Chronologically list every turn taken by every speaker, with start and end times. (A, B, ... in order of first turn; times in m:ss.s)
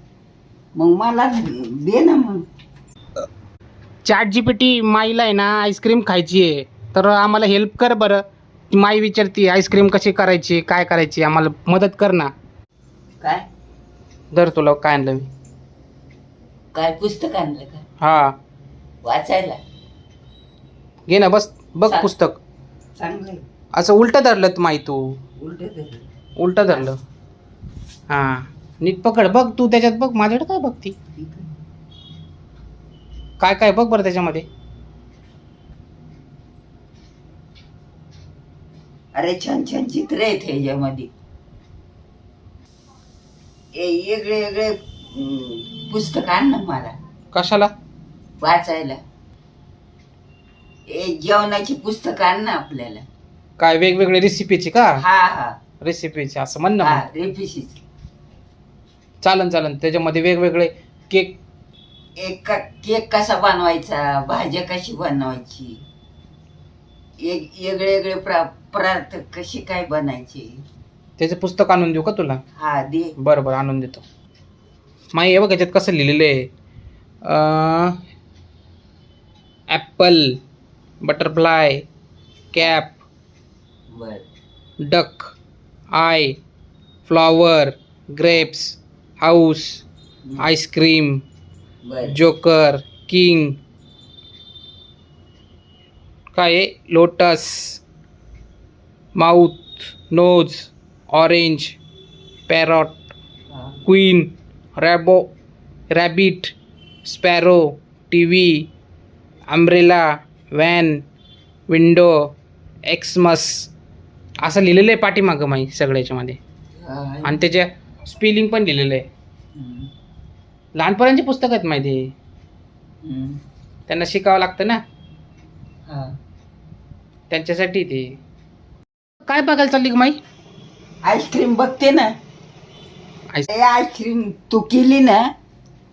0:00.8-0:02.5 A
0:04.0-0:12.3 B
0:14.3-0:15.3 B
0:16.7-0:17.9 A
0:18.0-0:18.4 B
0:19.0-0:19.6 A
0:21.1-0:22.4 B
0:21.9-0:22.1 A
0:23.0-0:23.4 A
0:23.8-0:25.2 B
0:25.4-0:26.1 A
0:26.4-0:27.0 B
0:28.1-0:31.0 B
0:31.2-0:31.5 A
0:33.4-0:34.5 B
0:39.1-0:41.1 A
0:43.8-0:47.0 A
0:47.3-0:47.7 B
0:48.4-0:49.0 A
0:50.9-0:53.1 A
0:53.6-0:55.0 B
0:55.0-0:55.6 A
0:55.8-0:57.0 B
0:56.8-0:57.8 A
0:59.2-1:01.4 B
1:02.2-1:05.8 A
1:07.2-1:10.6 A
1:11.2-1:12.4 B
1:12.6-1:13.2 A
1:13.2-1:14.0 B
1:15.1-1:16.5 B
1:17.2-1:18.0 B
1:19.7-1:20.4 B
1:21.0-1:21.8 B
1:22.5-1:23.0 B
1:23.9-1:24.2 A
1:24.8-1:25.3 B
1:25.9-1:26.4 B
1:27.1-1:29.8 B
1:30.4-1:31.2 B
1:31.8-1:32.2 A
1:32.1-1:33.6 B
1:36.3-1:37.8 B
1:39.2-1:41.8 B
1:42.5-1:43.0 B
1:43.5-1:43.8 A
1:43.9-1:45.3 B
1:45.9-1:46.5 B
1:47.0-1:48.7 B
1:49.5-1:51.0 B
1:51.7-1:52.3 B
1:52.9-1:53.7 B
1:54.4-1:56.4 B
1:56.8-1:57.4 A
1:57.2-1:59.1 B
1:59.6-1:59.9 A
2:00.8-2:02.1 B
2:03.0-2:03.4 A
2:03.9-2:04.8 B
2:05.9-2:06.2 A
2:07.3-2:08.2 B
2:09.3-2:10.2 B
2:11.0-2:12.1 A
2:13.5-2:15.3 A